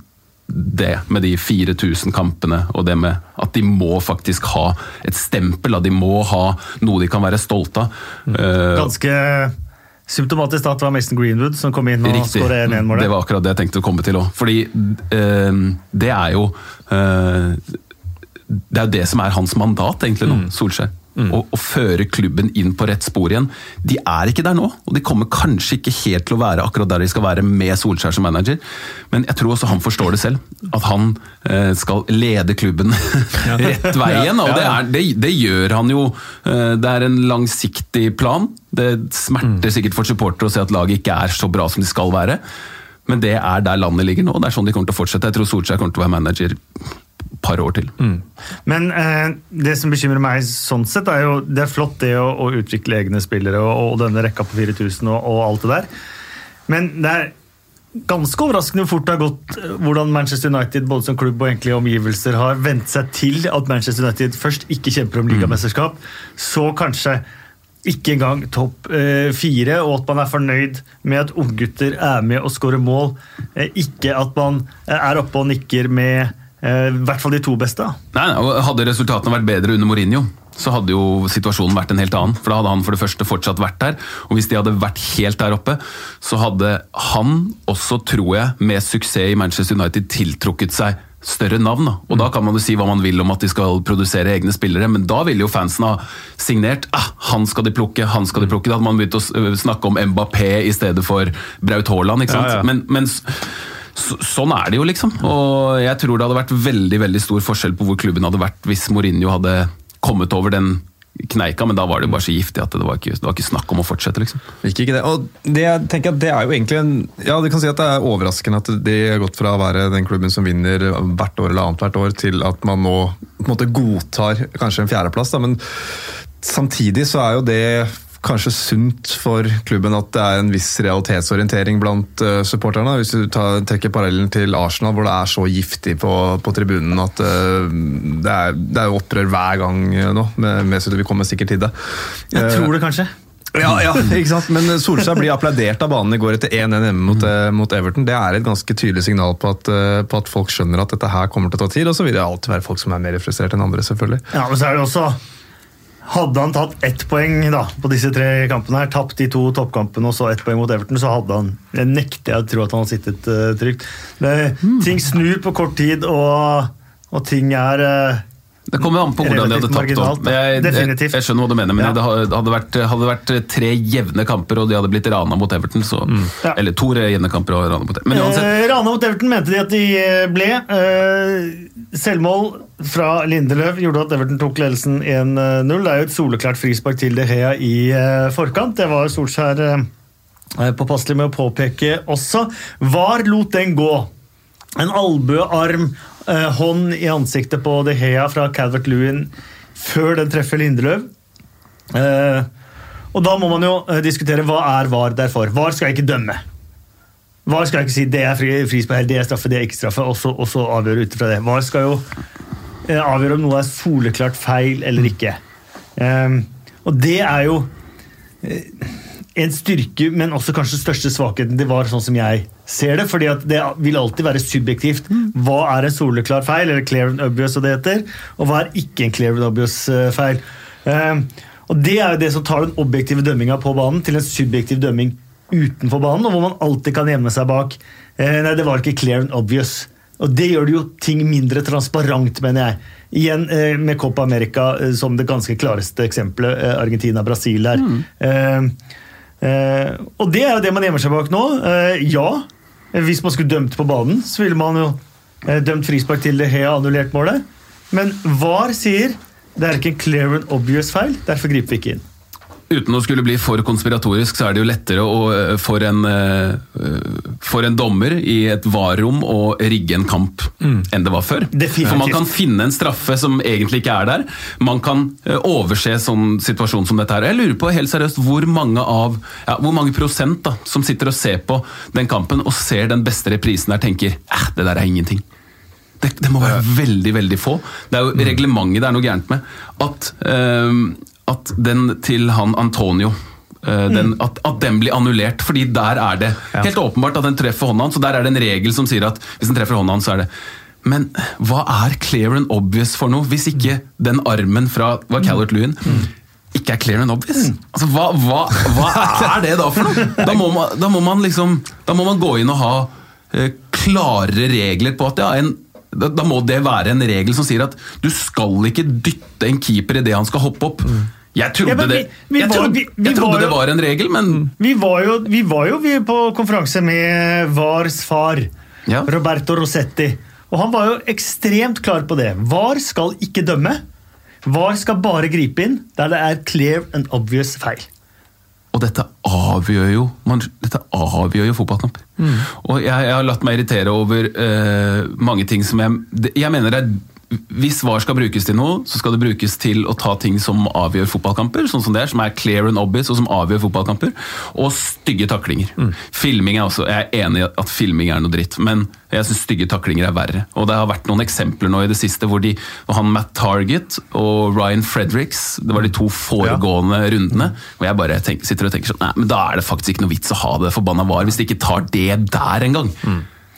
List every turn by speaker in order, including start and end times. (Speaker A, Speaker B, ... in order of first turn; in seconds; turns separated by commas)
Speaker A: 0.5-8.9, Speaker B: 8.7-9.5, Speaker B: 10.1-13.1, Speaker A: 12.0-17.8, Speaker A: 18.5-42.4, Speaker C: 33.4-34.8, Speaker A: 43.0-46.9, Speaker A: 47.4-47.9, Speaker B: 48.6-55.9, Speaker B: 56.7-57.3, Speaker B: 58.0-67.2, Speaker B: 67.8-78.0, Speaker A: 78.1-114.4, Speaker C: 102.3-102.7, Speaker C: 114.6-142.7, Speaker B: 142.3-143.1, Speaker C: 143.5-154.2, Speaker B: 154.3-155.2, Speaker B: 156.0-168.2, Speaker A: 168.7-178.5, Speaker B: 169.2-171.2, Speaker B: 178.1-189.9, Speaker B: 190.6-194.1, Speaker B: 194.8-201.1, Speaker B: 201.9-202.5, Speaker B: 203.1-206.4, Speaker B: 207.4-212.1, Speaker B: 212.8-215.4, Speaker B: 216.0-217.7, Speaker B: 218.4-248.7, Speaker B: 249.4-262.0, Speaker A: 262.7-285.2, Speaker B: 271.5-272.2, Speaker A: 286.0-300.3, Speaker A: 300.8-324.5, Speaker B: 321.6-323.6, Speaker B: 324.6-328.5, Speaker A: 328.9-329.1, Speaker B: 329.1-333.8, Speaker B: 334.4-337.9, Speaker A: 338.7-373.0, Speaker C: 342.2-342.5